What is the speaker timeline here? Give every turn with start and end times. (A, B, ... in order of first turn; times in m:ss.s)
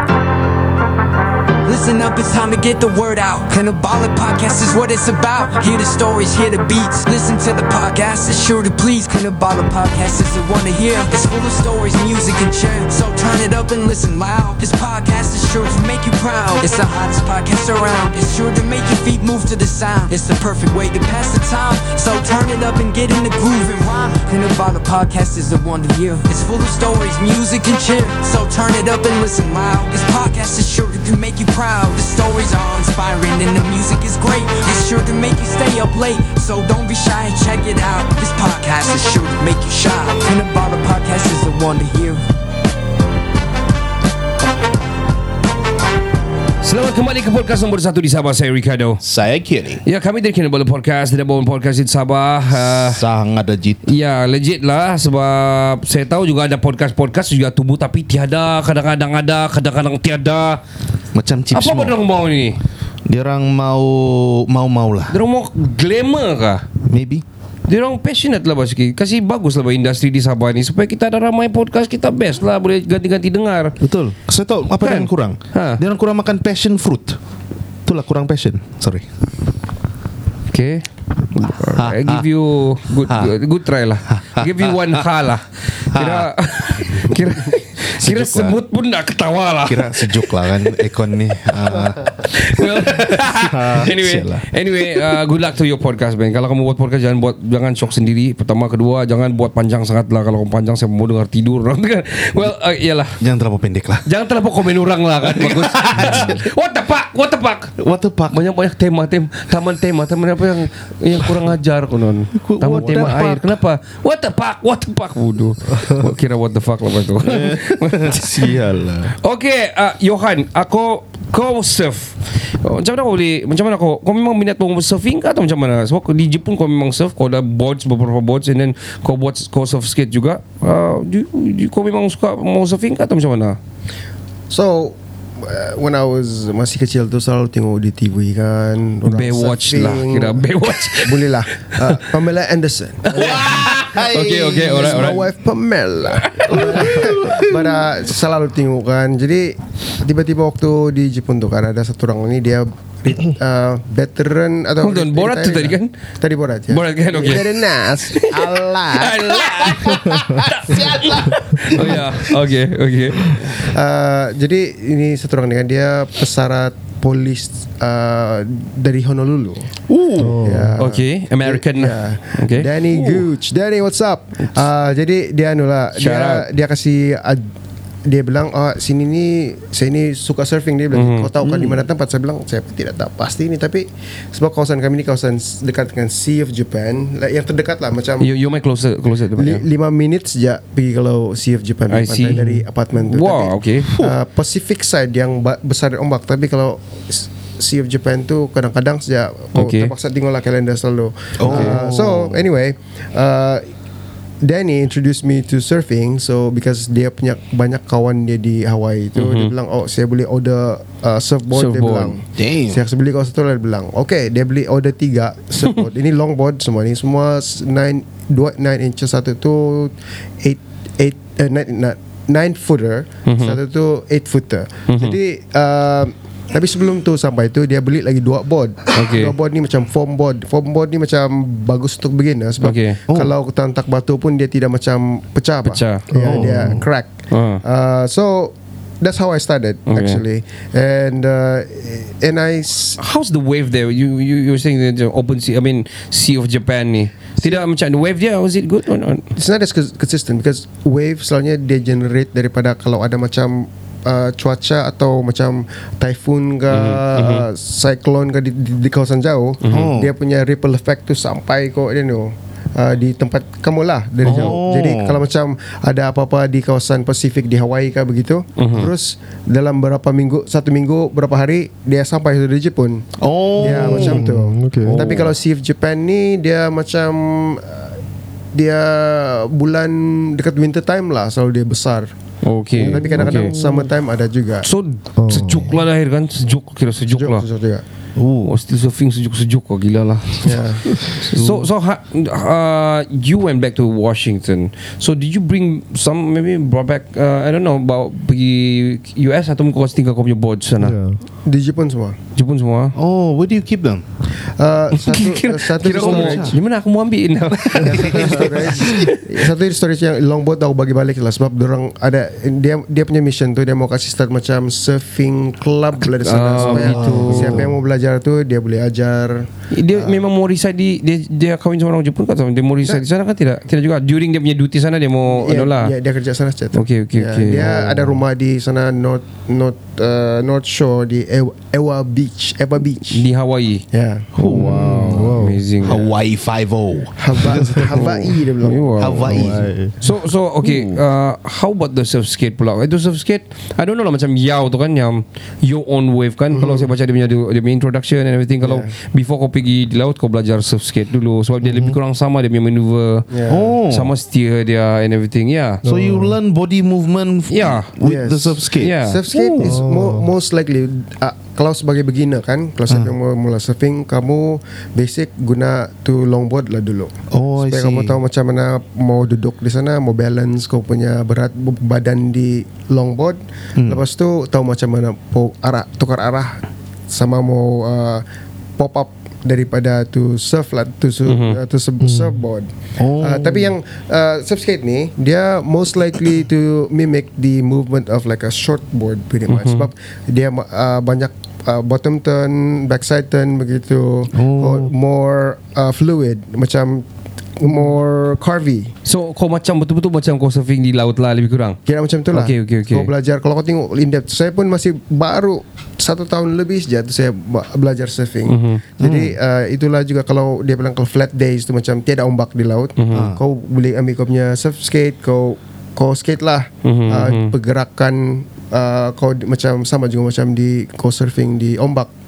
0:01.6-0:42.2 A
0:46.6-0:49.0 B
0:49.0-0:49.8 C
0:49.8-0:53.0 B
0:52.7-0:53.8 C
0:53.8-1:00.6 B
1:01.1-1:02.0 C
1:01.5-1:02.6 B
1:03.0-1:05.1 C
1:05.1-1:06.6 B
1:06.9-1:07.2 C
1:07.7-1:13.7 B
1:13.8-1:17.2 C
1:14.8-1:15.8 B
1:17.8-1:19.0 C
1:20.5-1:30.8 B
1:21.8-1:22.2 C
1:23.1-1:23.3 C
1:24.1-1:24.9 C
1:25.9-1:26.3 C
1:26.8-1:27.1 C
1:27.9-1:28.6 C
1:29.7-1:34.4 C
1:32.2-1:43.1 B
1:43.2-1:44.0 C
1:44.0-1:47.8 B
1:45.3-1:46.4 C
1:47.8-1:48.4 C
1:48.3-1:58.5 B
1:52.4-1:53.5 C
1:57.2-1:59.1 C
1:59.2-2:13.6 B
2:14.5-2:41.3 D
2:19.1-2:21.3 B
2:23.1-2:25.2 B
2:23.2-2:25.2 C
2:26.2-2:26.9 B
2:26.5-2:27.8 C
2:34.8-2:35.9 B
2:36.7-2:37.6 B
2:38.2-2:43.3 B
2:43.6-2:49.7 D
2:49.9-2:50.4 C
2:50.2-2:50.8 E
2:50.4-2:57.5 D
2:50.8-2:52.7 B
2:52.9-2:53.2 C
2:56.0-2:56.4 B
2:58.0-3:08.3 D
3:00.9-3:01.5 B
3:08.2-3:09.6 B
3:09.4-3:23.6 D
3:11.9-3:12.6 B
3:13.1-3:13.9 B
3:13.9-3:14.1 C
3:19.5-3:19.9 B
3:21.4-3:22.4 C
3:21.5-3:21.8 B
3:24.4-3:57.1 D
3:29.1-3:29.5 B
3:31.5-3:32.2 B
3:32.4-3:32.8 C
3:43.3-3:43.6 B
3:44.9-3:45.2 B
3:49.0-3:49.3 B
3:52.6-3:53.0 B
3:55.6-3:56.1 B
3:56.2-3:56.8 C
3:56.3-3:56.6 E
3:57.3-3:57.6 B
3:57.6-4:03.0 D
3:59.9-4:00.2 B
4:03.0-4:09.2 B
4:09.3-4:33.0 D
4:16.7-4:17.4 B
4:19.7-4:20.1 C
4:24.2-4:25.2 C
4:28.6-4:28.9 B
4:33.2-4:34.2 C
4:33.6-4:38.0 D
4:33.6-4:35.1 E
4:34.9-4:35.3 B
4:38.5-4:42.1 D
4:42.4-4:43.5 B
4:42.8-4:44.7 D
4:43.1-4:43.8 C
4:44.6-4:47.4 B
4:45.2-4:45.7 E
4:47.1-4:47.8 D
4:48.2-4:48.5 C
4:48.4-5:01.0 B
4:50.4-4:51.0 D
5:00.8-5:01.2 E
5:01.4-5:02.2 D
5:02.4-5:02.9 B
5:03.0-5:04.0 C
5:04.6-5:06.6 D
5:05.0-5:09.2 B
5:05.9-5:06.5 C
5:07.7-5:20.2 D
5:16.0-5:17.6 B
5:16.6-5:17.5 C
5:17.1-5:17.7 E
5:19.7-5:25.9 B
5:25.3-5:33.2 D
5:26.7-5:28.0 B
5:33.1-5:33.8 B
5:33.9-5:34.3 D
5:34.4-5:35.0 C
5:34.4-5:36.0 B
5:34.4-5:35.6 E
5:35.8-5:37.9 C
5:37.2-5:39.6 D
5:37.9-5:39.3 B
5:39.0-5:39.6 C
5:39.3-5:40.0 E
5:40.0-5:53.2 B
5:40.6-5:41.0 C
5:46.5-5:46.8 D
5:48.6-5:48.9 D
5:51.6-5:52.0 E
5:53.3-5:53.7 D
5:53.5-5:54.1 C
5:53.9-5:55.8 B
5:55.8-5:56.4 E
5:55.8-5:59.7 C
5:57.5-5:57.9 B
5:58.0-6:18.2 D
5:58.8-5:59.2 B
5:59.6-6:00.3 E
6:07.3-6:08.2 C
6:13.8-6:14.0 C
6:18.8-6:37.0 D
6:21.2-6:21.6 B
6:22.0-6:22.4 E
6:23.0-6:23.7 C
6:29.5-6:29.9 B
6:34.3-6:34.9 C
6:37.6-6:38.9 D
6:39.0-6:41.8 B
6:41.8-7:02.1 D
6:42.3-6:43.1 B
6:48.5-6:48.8 B
6:49.0-6:49.4 C
6:53.0-6:53.3 B
6:53.1-6:53.4 C
6:56.8-6:57.5 B